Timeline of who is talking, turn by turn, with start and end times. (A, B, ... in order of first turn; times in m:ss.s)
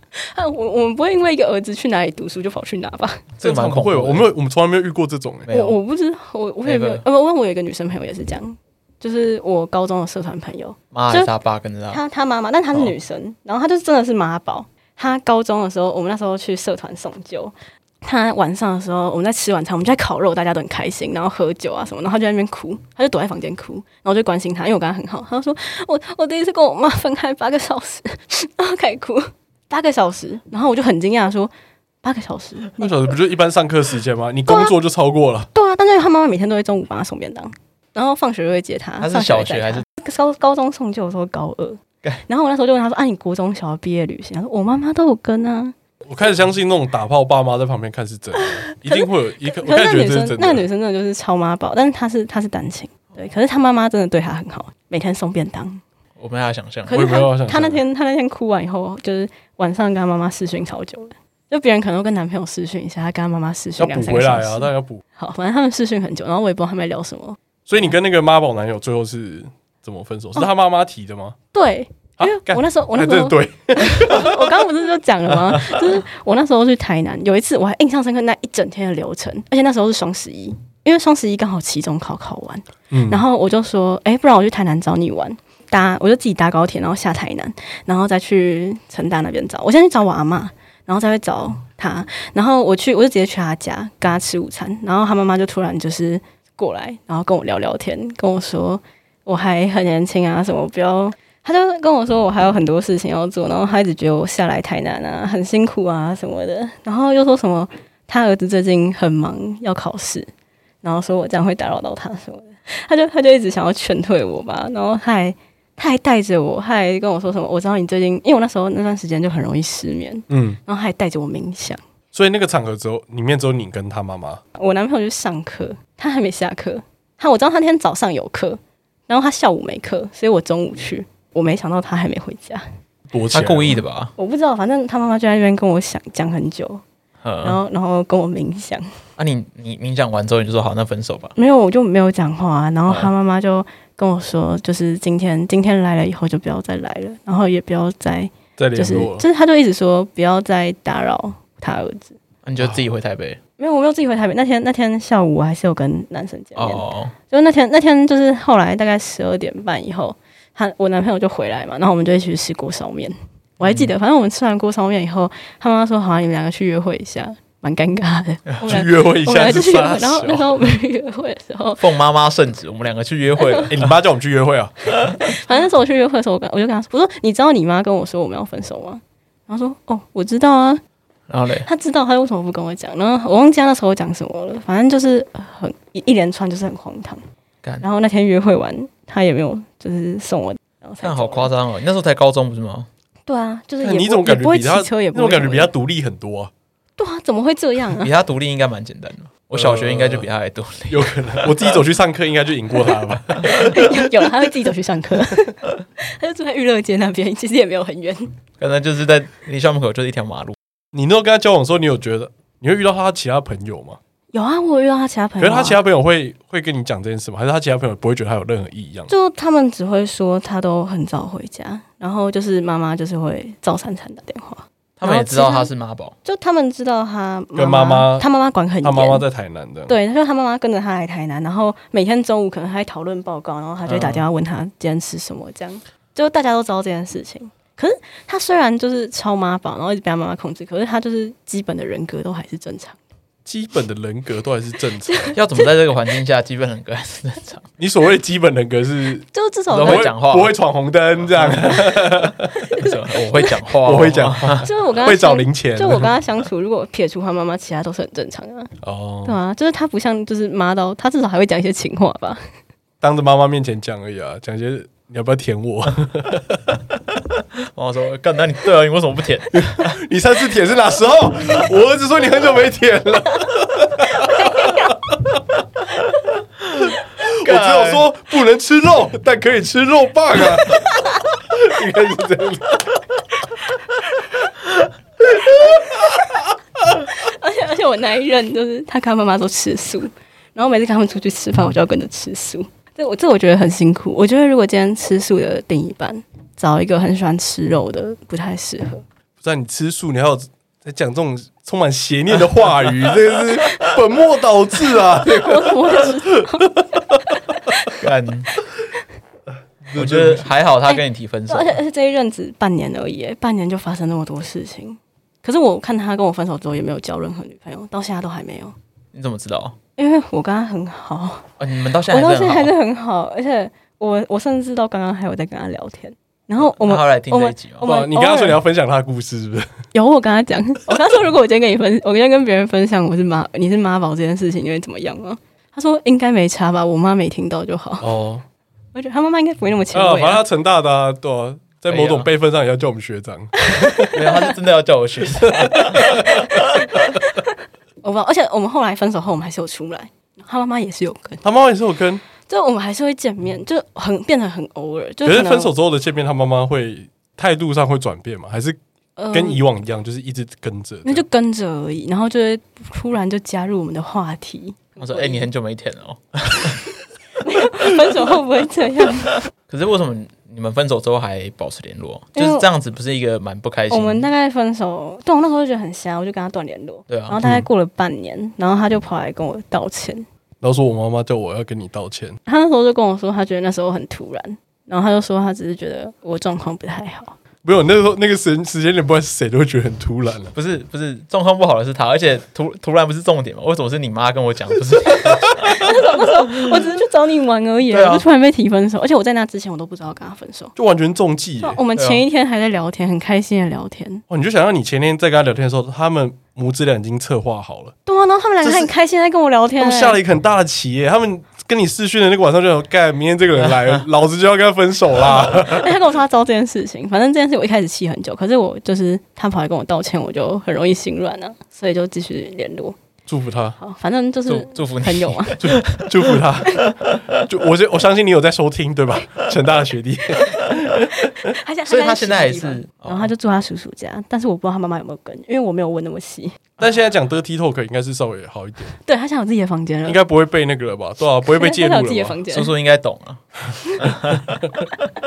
0:00.2-0:03.3 A
0:03.4-0:04.3 B
0:03.4-0:05.5 C
0:05.5-0:05.8 B
0:05.5-0:11.3 A
0:06.6-0:07.0 B
0:10.9-0:12.0 B
0:11.9-0:31.5 A
0:32.0-0:32.9 A
0:32.8-0:35.5 C
0:34.5-0:34.7 A
0:35.5-0:45.8 A
0:39.0-0:39.8 B
0:46.1-0:50.6 C
0:48.9-0:55.8 A
0:56.2-0:57.0 B
0:56.9-1:07.4 A
0:56.9-0:57.8 C
1:03.8-1:05.0 C
1:07.7-1:11.4 C
1:11.5-1:50.3 A
1:12.2-1:14.4 C
1:22.9-1:23.2 C
1:50.8-2:01.8 A
2:00.3-2:00.6 C
2:02.1-2:04.4 C
2:04.6-2:12.6 A
2:13.1-2:13.8 C
2:13.3-2:14.1 B
2:14.2-2:16.8 A
2:17.2-2:17.6 B
2:17.4-2:18.9 A
2:19.2-2:21.4 B
2:21.4-2:32.2 A
2:28.6-2:29.2 C
2:32.4-2:33.4 B
2:33.6-2:51.8 A
2:36.6-2:37.1 B
2:43.6-2:43.9 B
2:48.7-2:50.5 C
2:51.8-2:53.9 B
2:53.4-2:53.7 A
2:53.7-2:54.7 C
2:55.0-2:55.3 B
2:55.3-3:00.8 A
3:01.3-3:01.7 B
3:01.6-3:07.2 A
3:07.8-3:11.5 A
3:11.0-3:12.9 B
3:13.3-3:15.7 A
3:13.8-3:16.5 C
3:17.0-3:18.1 A
3:18.0-3:21.8 B
3:19.5-3:20.3 C
3:20.9-3:23.6 C
3:23.5-3:28.3 A
3:23.6-3:23.9 B
3:28.6-3:30.6 B
3:30.9-3:34.0 C
3:34.3-3:35.8 A
3:35.4-3:39.1 C
3:39.1-3:45.7 A
3:45.0-3:46.2 B
3:46.2-3:49.2 A
3:47.6-3:48.3 C
3:48.8-3:50.0 C
3:49.9-4:03.0 A
3:53.9-3:54.3 C
4:03.5-4:05.2 C
4:05.0-4:05.4 A
4:05.4-4:07.7 B
4:07.8-4:12.6 C
4:09.3-4:10.1 A
4:09.7-4:10.5 B
4:11.4-4:12.0 B
4:12.7-4:13.5 A
4:12.7-4:14.7 B
4:13.8-4:16.1 C
4:14.6-4:18.7 A
4:18.8-4:19.4 C
4:19.2-4:22.4 A
4:23.0-4:26.8 C
4:27.7-4:30.0 B
4:29.5-4:35.2 C
4:36.7-4:38.1 B
4:37.2-4:43.0 C
4:47.2-4:59.0 A
4:59.4-5:06.8 C
5:05.2-5:06.8 A
5:08.0-5:08.5 B
5:09.8-5:10.5 C
5:09.9-5:11.8 B
5:10.9-5:18.7 A
5:19.1-5:19.8 B
5:20.0-5:21.5 A
5:21.6-5:22.7 B
5:22.1-5:28.6 A
5:26.6-5:27.9 B
5:27.8-5:29.7 C
5:29.9-5:38.1 A
5:38.0-5:38.4 C
5:38.9-5:40.4 A
5:39.9-5:44.2 C
5:41.9-5:42.3 B
5:43.7-5:44.5 A
5:44.1-5:46.9 B
5:45.5-5:46.1 C
5:47.2-5:47.5 A
5:48.0-5:51.4 A
5:51.4-5:52.2 C
5:52.5-5:55.7 A
5:55.2-5:58.8 C
5:59.2-5:59.6 A
5:59.3-6:01.2 C
6:01.0-6:05.5 A
6:05.0-6:06.8 B
6:07.4-6:09.4 A
6:09.7-6:14.3 B
6:12.4-6:12.7 A
6:13.9-6:20.3 A
6:17.1-6:17.4 B
6:17.4-6:17.7 C
6:20.6-6:22.4 C
6:22.5-6:27.4 A
6:27.6-6:30.5 C
6:30.6-6:35.9 B
6:35.7-6:40.7 A
6:36.5-6:36.8 B
6:37.9-6:38.2 B
6:40.8-6:41.8 C
6:41.6-6:44.2 A
6:42.0-6:42.2 B
6:44.3-6:47.9 C
6:48.1-6:50.2 A
6:48.6-6:48.9 C
6:49.8-6:56.0 C
6:55.5-7:03.0 A
7:03.3-7:03.8 C
7:03.8-7:05.6 A
7:04.5-7:06.4 B
7:05.6-7:11.3 C
7:11.3-7:16.6 A
7:11.9-7:13.3 B
7:16.8-7:19.0 C
7:19.0-7:20.2 A
7:20.1-7:22.4 C
7:21.5-7:22.7 A
7:22.5-7:23.4 B
7:24.0-7:24.7 B